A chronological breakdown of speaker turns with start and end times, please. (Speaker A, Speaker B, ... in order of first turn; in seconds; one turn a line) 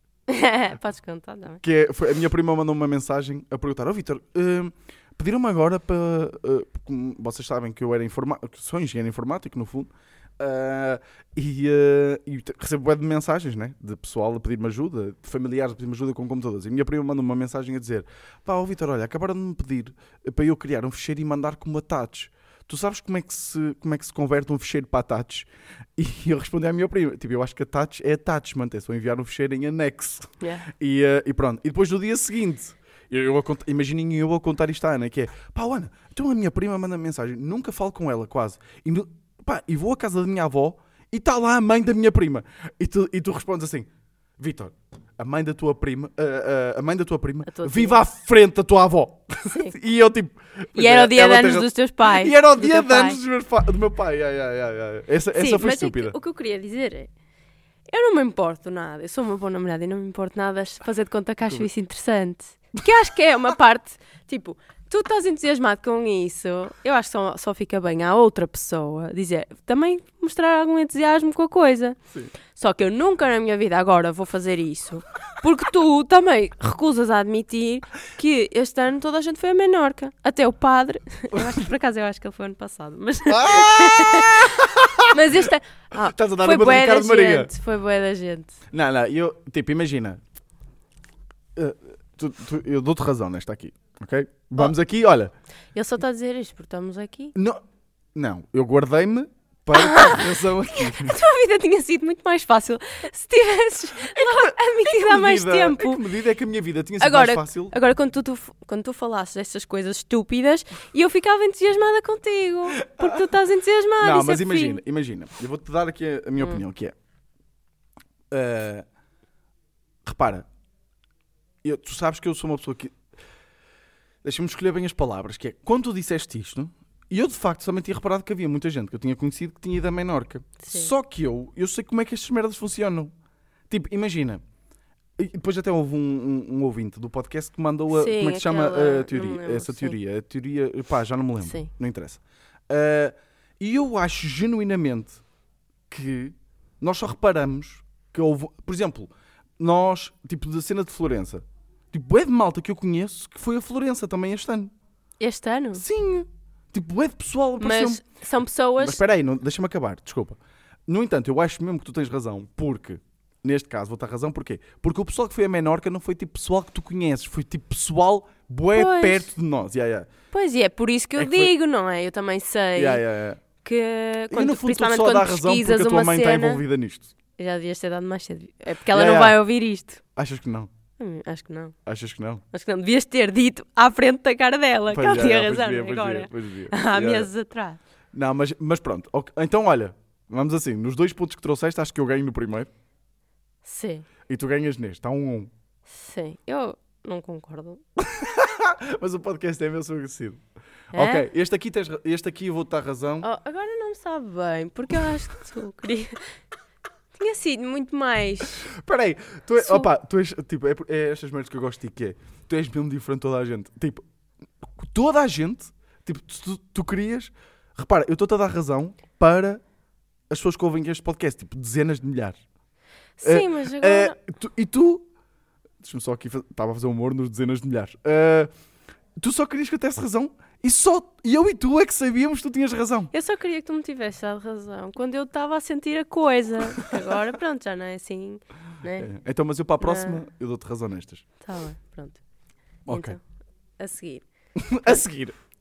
Speaker A: 0.3-1.6
Speaker B: 1.6-56.1
Speaker A: 30.4-30.7
Speaker A: 47.5-48.0
Speaker A: 49.5-49.8
Speaker A: 50.8-53.2
Speaker A: 55.3-57.1
Speaker A: 57.9-72.0
Speaker A: 72.5-88.6
Speaker B: 81.3-81.6
Speaker B: 83.3-85.4
Speaker B: 86.0-87.5
Speaker B: 88.7-90.2
Speaker B: 91.5-95.3
Speaker A: 95.8-97.3
Speaker B: 97.3-97.6
Speaker B: 98.2-101.2
Speaker A: 99.7-106.0
Speaker B: 104.2-107.7
Speaker A: 107.0-114.8
Speaker B: 113.0-113.2
Speaker B: 114.0-116.9
Speaker B: 118.3-118.8
Speaker B: 120.0-120.5
Speaker B: 121.6-123.0
Speaker B: 124.2-133.1
Speaker A: 130.6-130.9
Speaker B: 133.7-134.4
Speaker B: 135.2-145.2
Speaker A: 137.9-140.0
Speaker A: 141.4-141.7
Speaker B: 145.9-154.7
Speaker A: 155.2-155.8
Speaker B: 155.8-158.0
Speaker A: 157.6-159.0
Speaker B: 158.8-170.1
Speaker A: 168.7-169.3
Speaker A: 170.3-173.0
Speaker B: 171.2-171.5
Speaker B: 172.8-173.4
Speaker A: 173.6-176.6
Speaker B: 174.3-177.1
Speaker A: 177.4-180.0
Speaker B: 178.9-179.4
Speaker B: 180.2-180.7
Speaker A: 181.0-181.8
Speaker B: 181.9-182.4
Speaker A: 182.5-187.8
Speaker B: 184.9-187.3
Speaker B: 188.1-192.7
Speaker A: 193.7-194.1
Speaker B: 194.3-195.5
Speaker A: 195.9-197.8
Speaker B: 198.0-200.4
Speaker B: 200.9-203.3
Speaker A: 200.9-201.3
Speaker A: 203.2-206.2
Speaker A: 207.2-208.7
Speaker B: 208.6-214.0
Speaker A: 209.6-209.9
Speaker B: 214.6-219.6
Speaker B: 220.3-222.4
Speaker A: 223.2-224.2
Speaker B: 223.2-225.1
Speaker B: 225.8-228.5
Speaker B: 229.2-233.1
Speaker A: 233.1-239.1
Speaker B: 239.0-241.2
Speaker A: 239.8-240.2
Speaker A: 241.4-242.2
Speaker B: 242.9-243.2
Speaker A: 242.9-243.2
Speaker A: 243.8-244.2
Speaker B: 244.6-245.4